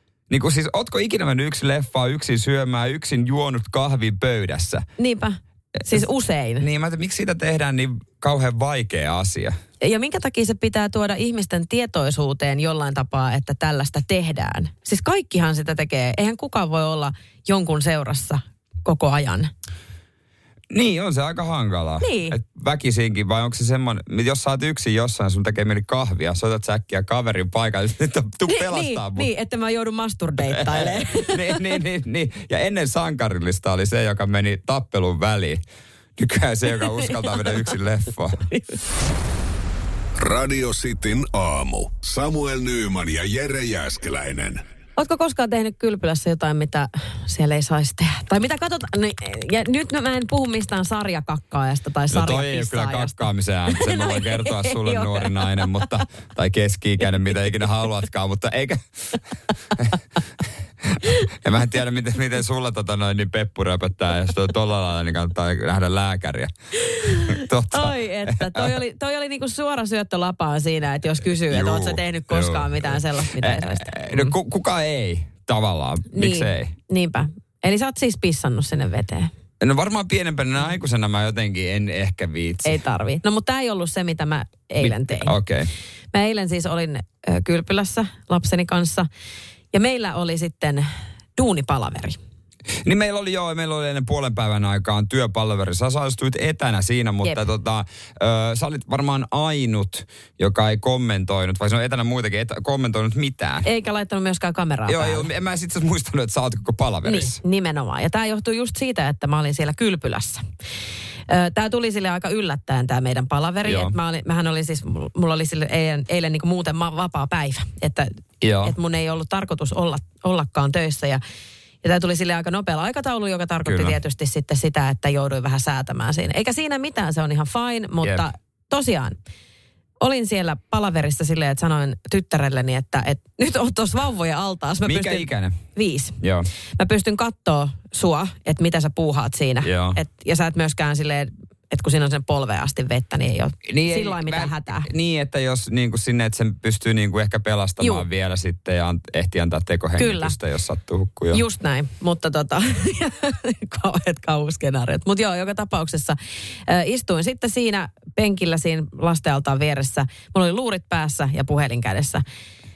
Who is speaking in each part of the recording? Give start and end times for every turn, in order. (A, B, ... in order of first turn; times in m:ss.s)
0:00.3-0:04.9 A
0:05.0-0:06.6 B
0:05.8-0:06.0 A
0:06.6-0:09.6 A
0:09.8-0:19.5 B
0:20.7-0:29.3 A
0:22.0-0:22.4 B
0:28.5-0:31.6 B
0:30.5-0:35.6 A
0:36.2-0:38.4 A
0:36.8-0:37.5 B
0:38.5-0:38.8 B
0:40.2-0:44.6 C
0:45.0-0:55.7 B
0:52.1-0:59.2 A
1:00.8-1:06.5 A
1:06.9-1:14.3 B
1:07.2-1:08.8 A
1:11.2-1:16.7 A
1:16.1-1:19.3 B
1:19.6-1:22.8 A
1:22.6-1:25.3 B
1:24.8-1:25.7 A
1:26.1-1:29.1 B
1:29.7-1:32.2 B
1:32.8-1:43.7 A
1:43.6-1:45.3 B
1:44.9-1:47.4 A
1:47.0-1:50.4 B
1:51.3-2:01.2 B
1:53.6-1:54.0 A
1:58.4-1:58.8 A
2:01.8-2:09.2 B
2:03.6-2:04.0 A
2:10.0-2:16.2 B
2:14.8-2:15.6 A
2:16.2-2:16.5 A
2:16.8-2:24.9 B
2:19.6-2:20.0 A
2:23.7-2:31.4 A
2:30.0-2:30.4 B
2:31.3-2:42.2 B